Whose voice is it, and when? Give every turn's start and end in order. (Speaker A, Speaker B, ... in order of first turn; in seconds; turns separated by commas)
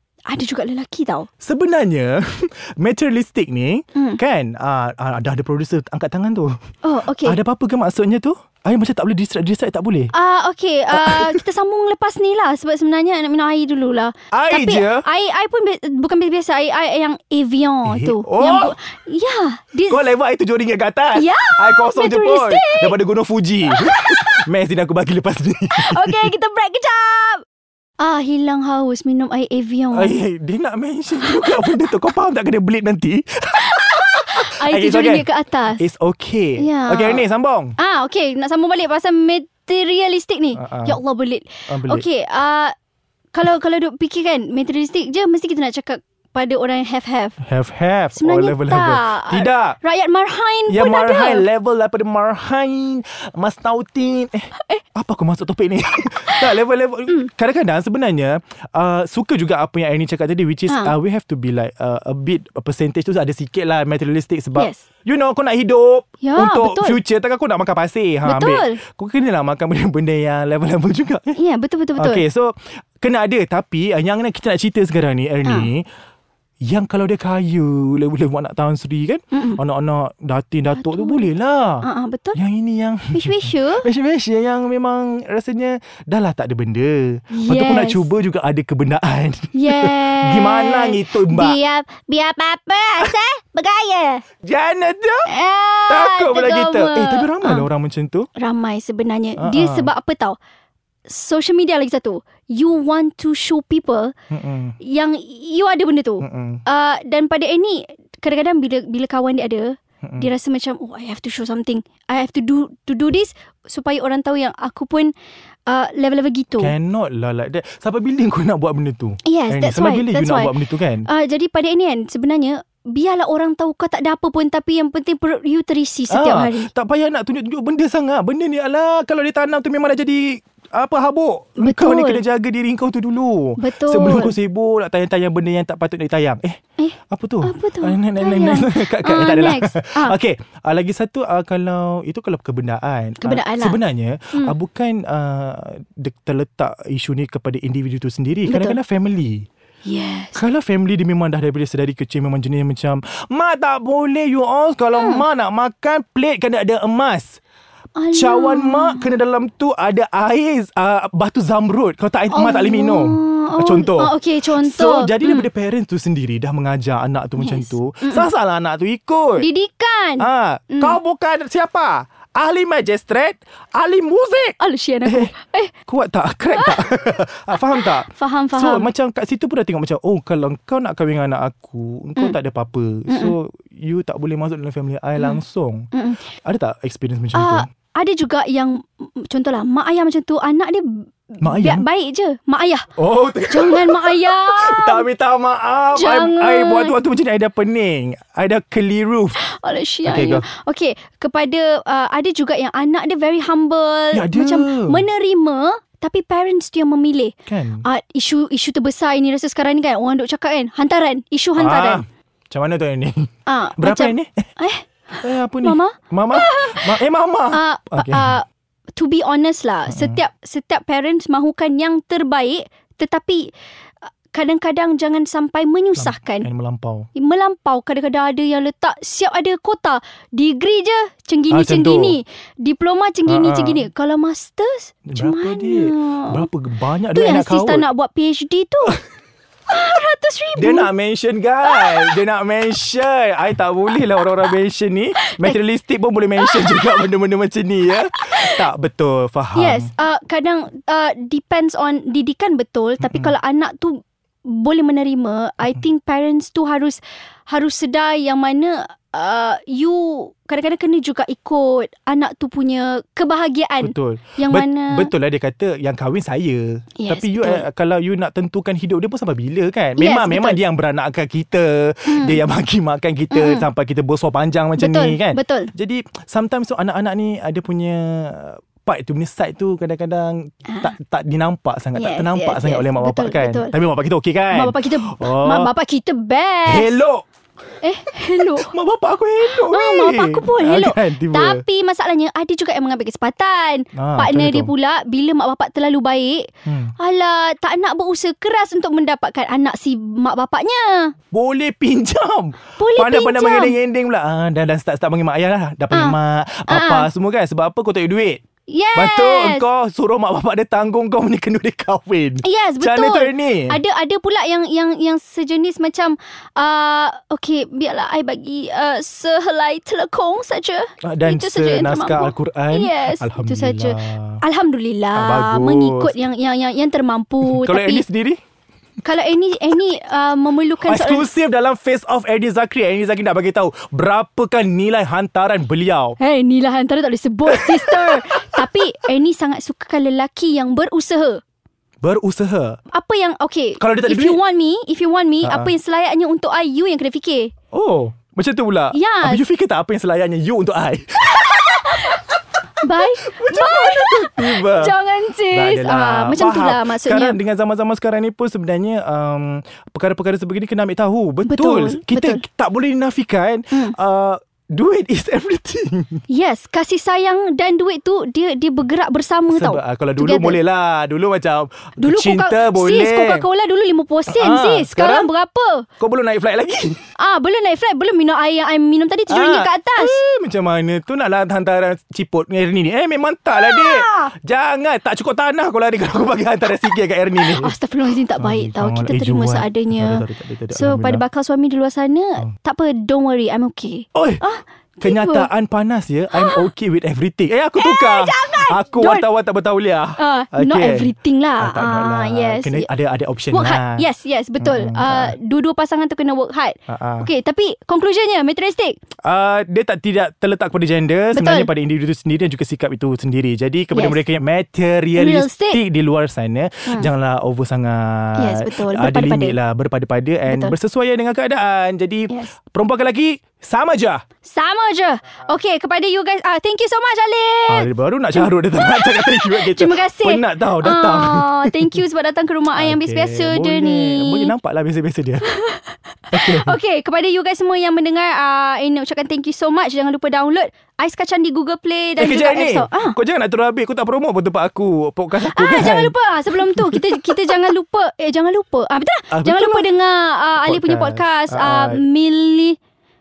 Speaker A: 0.3-1.3, Speaker B: 1.4-6.6, Speaker A: 3.9-4.2, Speaker A: 6.8-7.4, Speaker B: 7.2-10.1, Speaker A: 10.1-20.1, Speaker B: 10.9-11.4, Speaker B: 14.3-15.1, Speaker B: 17.9-18.7, Speaker B: 19.9-26.3, Speaker A: 21.1-22.9, Speaker A: 23.7-24.4, Speaker A: 25.7-27.4, Speaker A: 28.0-30.1, Speaker B: 29.9-37.7, Speaker A: 31.2-31.9, Speaker A: 33.6-35.8, Speaker A: 36.6-37.2, Speaker A: 37.8-42.7, Speaker B: 40.5-41.0, Speaker B: 41.7-42.0, Speaker A: 43.3-47.4, Speaker B: 47.4-49.8, Speaker A: 48.1-51.5, Speaker B: 50.7-71.4, Speaker A: 56.2-56.6, Speaker A: 64.5-64.8, Speaker A: 66.2-67.0, Speaker A: 68.2-68.8, Speaker A: 71.3-72.2, Speaker B: 72.0-75.8, Speaker A: 75.4-75.7, Speaker B: 76.7-91.6, Speaker A: 79.3-79.6, Speaker A: 80.8-81.3, Speaker A: 81.8-82.4, Speaker A: 83.1-83.9, Speaker A: 87.3-88.1, Speaker A: 89.5-94.2, Speaker B: 94.4-95.3, Speaker A: 95.3-97.7, Speaker B: 95.9-98.3, Speaker A: 98.3-100.4, Speaker B: 99.4-99.9, Speaker A: 101.1-104.1, Speaker B: 104.3-104.8, Speaker A: 104.8-115.1, Speaker B: 106.2-106.6, Speaker B: 110.0-110.3, Speaker A: 115.7-116.7, Speaker B: 116.6-121.1, Speaker A: 119.2-126.7, Speaker B: 126.1-136.6, Speaker A: 131.6-132.2, Speaker A: 133.6-134.3, Speaker A: 136.8-140.2, Speaker B: 137.1-149.5, Speaker A: 143.2-143.8, Speaker A: 148.4-148.8, Speaker A: 149.8-150.4, Speaker B: 150.3-157.4, Speaker A: 154.9-155.2, Speaker A: 157.9-159.1, Speaker B: 158.1-169.5, Speaker A: 162.3-165.5, Speaker A: 167.4-168.3, Speaker A: 169.4-171.0, Speaker B: 170.2-175.3, Speaker A: 174.6-175.7, Speaker B: 175.9-187.7, Speaker A: 177.5-178.9, Speaker A: 183.1-183.3, Speaker A: 185.9-186.3, Speaker A: 187.3-192.9, Speaker B: 191.4-191.8, Speaker B: 193.0-199.4, Speaker A: 193.5-195.1, Speaker A: 195.9-197.0, Speaker A: 199.3-212.0, Speaker B: 200.0-200.5, Speaker B: 204.1-205.0, Speaker B: 207.5-207.8, Speaker B: 211.6-214.5, Speaker A: 213.4-217.0, Speaker B: 215.2-218.4, Speaker A: 217.5-223.5, Speaker B: 219.9-220.2, Speaker A: 224.1-226.5, Speaker B: 226.0-227.1, Speaker A: 227.1-236.5, Speaker B: 231.5-232.2, Speaker B: 233.2-233.8, Speaker B: 235.1-237.9, Speaker A: 237.1-239.0, Speaker A: 239.7-240.9, Speaker B: 240.6-249.9, Speaker A: 241.6-242.2, Speaker A: 245.2-245.6, Speaker A: 246.4-247.1, Speaker A: 248.1-248.6, Speaker A: 249.5-265.1, Speaker B: 253.0-253.3, Speaker B: 263.8-285.7, Speaker A: 267.0-267.6, Speaker A: 270.0-270.6, Speaker A: 272.1-272.4, Speaker A: 273.3-273.6, Speaker A: 274.8-275.7, Speaker A: 280.7-280.9, Speaker A: 281.9-283.7, Speaker A: 284.5-287.0, Speaker B: 286.6-287.2, Speaker A: 287.8-288.7, Speaker B: 288.6-291.6, Speaker A: 289.5-301.1, Speaker B: 293.9-294.7, Speaker B: 296.6-296.9, Speaker B: 301.3-308.4, Speaker A: 302.8-303.8, Speaker A: 305.9-306.1, Speaker A: 306.7-307.1, Speaker A: 308.7-309.6, Speaker B: 308.9-313.8, Speaker A: 312.4-328.0, Speaker B: 321.0-324.4, Speaker B: 325.1-326.2, Speaker B: 327.4-328.4, Speaker A: 329.0-331.3, Speaker B: 330.8-336.2, Speaker A: 336.2-341.4, Speaker B: 337.4-338.9, Speaker B: 342.0-342.8, Speaker A: 342.9-347.5, Speaker B: 343.8-344.4, Speaker B: 345.4-345.7, Speaker B: 347.7-352.2, Speaker A: 348.9-349.4, Speaker A: 351.6-352.2, Speaker A: 352.8-357.4, Speaker B: 353.1-354.9, Speaker B: 355.5-366.2, Speaker A: 361.4-362.4, Speaker A: 366.3-370.6, Speaker B: 369.5-373.5, Speaker A: 372.0-375.9, Speaker B: 374.3-375.3, Speaker B: 376.0-377.0, Speaker A: 377.2-380.2, Speaker B: 379.3-387.7, Speaker A: 383.5-384.3, Speaker A: 387.4-395.5, Speaker B: 388.4-391.2, Speaker B: 394.1-394.4, Speaker B: 395.0-404.0, Speaker A: 396.3-396.7, Speaker A: 397.8-399.2, Speaker A: 400.2-402.9, Speaker A: 403.5-409.0, Speaker B: 404.6-405.4, Speaker B: 406.9-407.3, Speaker B: 409.2-424.2, Speaker A: 411.3-411.7, Speaker A: 413.9-414.2, Speaker A: 415.1-415.8, Speaker A: 418.4-419.6, Speaker A: 420.5-420.8, Speaker A: 424.4-434.5, Speaker B: 427.7-432.0, Speaker B: 432.8-435.5, Speaker A: 435.4-443.2, Speaker B: 436.3-436.8, Speaker B: 442.2-447.7, Speaker A: 445.4-452.8, Speaker B: 449.3-449.9, Speaker B: 450.6-452.0